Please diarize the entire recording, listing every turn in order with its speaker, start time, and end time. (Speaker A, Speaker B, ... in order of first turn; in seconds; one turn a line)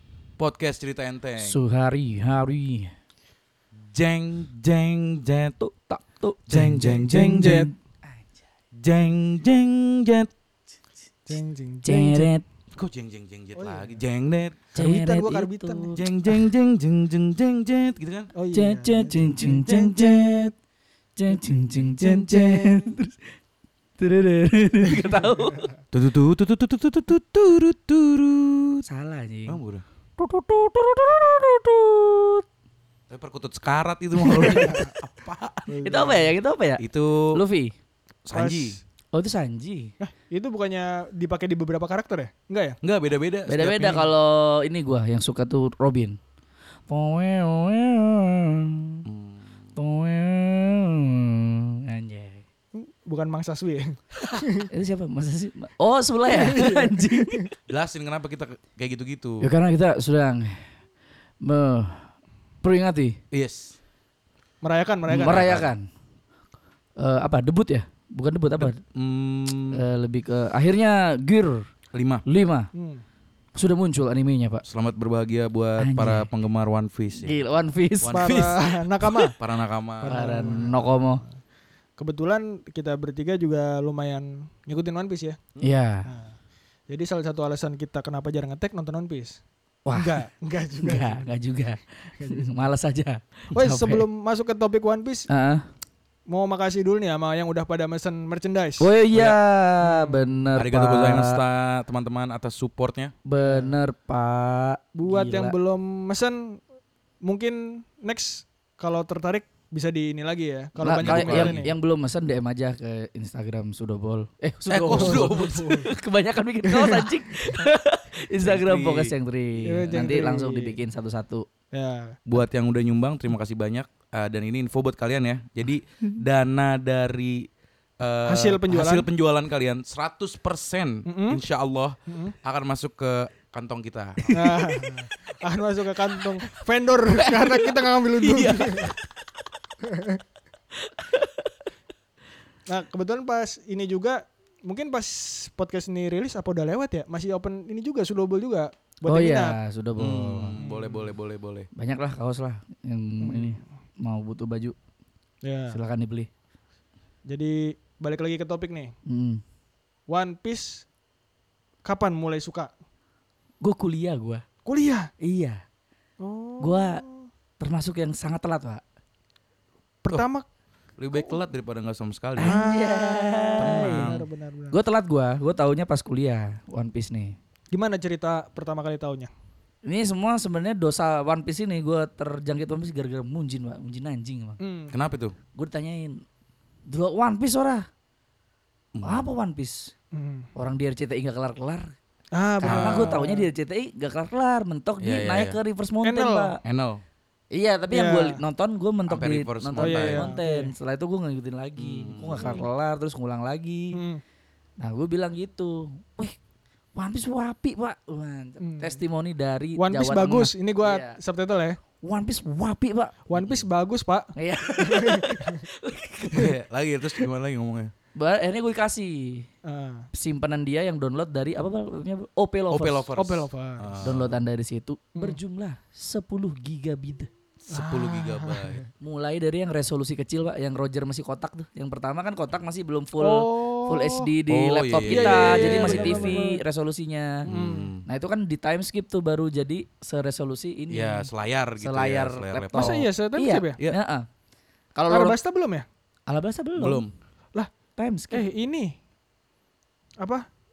Speaker A: 0.4-1.6
Speaker B: 1.4-2.9
Speaker A: 3.9-5.5
Speaker B: 5.6-8.4
Speaker A: 6.5-7.7
Speaker C: 7.1-7.7
Speaker A: 8.8-10.3
Speaker C: 11.3-12.3
Speaker B: 11.8-12.4
Speaker A: 12.7-14.6
Speaker C: 13.6-13.9
Speaker C: 14.7-16.0
Speaker B: 14.7-16.0
Speaker A: 15.9-18.3
Speaker C: 18.3-20.5
Speaker B: 18.5-20.5
Speaker B: 21.1-23.3
Speaker C: 21.3-22.9
Speaker B: 24.0-25.7
Speaker C: 24.9-25.6
Speaker A: 25.9-28.8
Speaker B: 28.9-29.6
Speaker A: 29.5-29.8
Speaker B: 30.2-32.4
Speaker A: 33.1-35.6
Speaker B: 34.1-34.8
Speaker C: 34.4-34.9
Speaker C: 35.7-36.3
Speaker B: 35.8-37.7
Speaker A: 36.8-37.4
Speaker A: 38.2-38.8
Speaker C: 38.3-38.8
Speaker B: 39.1-39.9
Speaker C: 40.0-42.8
Speaker A: 42.8-44.1
Speaker B: 43.5-46.2
Speaker B: 46.9-49.0
Speaker A: 49.0-49.7
Speaker B: 49.8-52.4
Speaker C: 52.7-54.7
Speaker B: 54.6-57.5
Speaker C: 56.3-57.5
Speaker A: 57.7-59.5
Speaker B: 59.4-60.7
Speaker B: 61.4-62.1
Speaker B: 62.6-63.2
Speaker A: 63.3-63.8
Speaker C: 64.6-65.4
Speaker B: 65.1-65.8
Speaker A: 65.2-65.7
Speaker B: 67.0-68.8
Speaker A: 68.9-69.8
Speaker B: 69.7-71.7
Speaker A: 71.9-72.2
Speaker B: 72.2-72.7
Speaker C: 72.7-73.0
Speaker B: 73.5-74.6
Speaker A: 74.7-77.3
Speaker B: 75.8-76.3
Speaker B: 77.2-78.3
Speaker A: 78.0-78.7
Speaker C: 78.1-79.3
Speaker A: 79.3-80.6
Speaker C: 80.0-81.3
Speaker B: 80.1-81.2
Speaker C: 82.0-85.4
Speaker B: 85.6-86.1
Speaker C: 86.0-86.3
Speaker C: 86.9-89.4
Speaker B: 89.8-90.2
Speaker C: 89.9-91.3
Speaker B: 90.8-94.0
Speaker C: 92.2-92.7
Speaker C: 93.5-95.3
Speaker B: 95.3-95.7
Speaker C: 96.3-98.9
Speaker B: 98.8-101.4
Speaker C: 99.8-100.4
Speaker A: 100.6-103.1
Speaker B: 103.2-105.5
Speaker C: 103.4-103.8
Speaker C: 105.0-106.6
Speaker C: 107.2-111.7
Speaker B: 110.8-121.5
Speaker A: 110.8-111.7
Speaker A: 114.7-115.7
Speaker C: 114.9-115.9
Speaker C: 116.6-117.5
Speaker A: 118.4-119.1
Speaker C: 119.6-120.7
Speaker C: 121.7-122.2
Speaker A: 122.3-127.5
Speaker A: 128.0-134.6
Speaker C: 128.2-129.1
Speaker C: 131.1-131.4
Speaker C: 132.1-132.3
Speaker B: 134.2-134.8
Speaker C: 134.3-138.9
Speaker B: 137.2-137.7
Speaker A: 138.3-138.9
Speaker C: 139.8-140.2
Speaker B: 140.8-141.6
Speaker C: 142.7-149.6
Speaker B: 149.1-150.6
Speaker A: 150.0-151.7
Speaker C: 150.6-151.1
Speaker B: 151.7-154.8
Speaker C: 153.2-153.6
Speaker C: 155.4-155.8
Speaker B: 155.7-156.3
Speaker C: 157.3-158.9
Speaker B: 159.1-159.4
Speaker C: 160.1-160.8
Speaker C: 161.8-162.7
Speaker B: 163.6-164.4
Speaker C: 164.6-165.1
Speaker B: 165.2-165.6
Speaker C: 166.2-167.2
Speaker B: 166.6-167.0
Speaker B: 167.6-168.8
Speaker C: 170.0-170.4
Speaker A: 171.0-172.6
Speaker B: 172.4-174.2
Speaker C: 172.4-174.7
Speaker A: 173.6-174.2
Speaker B: 174.7-177.3
Speaker C: 177.7-179.3
Speaker B: 179.8-184.6
Speaker C: 184.6-184.9
Speaker A: 184.9-185.3
Speaker B: 185.5-186.2
Speaker B: 186.9-187.9
Speaker A: 188.9-189.3
Speaker B: 189.0-189.9
Speaker C: 190.1-190.5
Speaker B: 190.5-191.9
Speaker C: 192.3-193.5
Speaker B: 192.6-196.6
Speaker A: 192.7-193.2
Speaker A: 195.0-195.6
Speaker C: 196.0-196.6
Speaker A: 196.6-197.0
Speaker B: 197.5-204.0
Speaker C: 197.9-198.4
Speaker A: 199.1-200.3
Speaker C: 199.8-200.7
Speaker A: 201.8-202.6
Speaker C: 202.3-202.7
Speaker C: 203.9-204.2
Speaker B: 204.8-206.3
Speaker B: 206.9-211.2
Speaker C: 208.6-209.0
Speaker C: 209.8-211.8
Speaker B: 212.0-213.2
Speaker C: 213.3-215.7
Speaker A: 213.3-213.6
Speaker B: 214.3-216.5
Speaker A: 216.3-217.9
Speaker B: 218.2-219.5
Speaker C: 219.6-220.1
Speaker B: 220.1-223.1
Speaker A: 222.7-224.3
Speaker C: 223.2-223.9
Speaker B: 224.0-227.3
Speaker A: 227.6-228.8
Speaker C: 227.7-228.8
Speaker B: 229.0-237.5
Speaker C: 233.2-234.3
Speaker A: 234.5-236.4
Speaker C: 235.1-236.6
Speaker A: 237.4-238.1
Speaker C: 237.5-237.9
Speaker B: 238.1-244.3
Speaker A: 240.9-243.1
Speaker C: 242.7-243.8
Speaker B: 244.9-245.4
Speaker C: 245.1-245.9
Speaker B: 246.3-247.1
Speaker A: 246.8-247.1
Speaker B: 248.0-248.4
Speaker C: 248.3-248.9
Speaker C: 250.2-250.4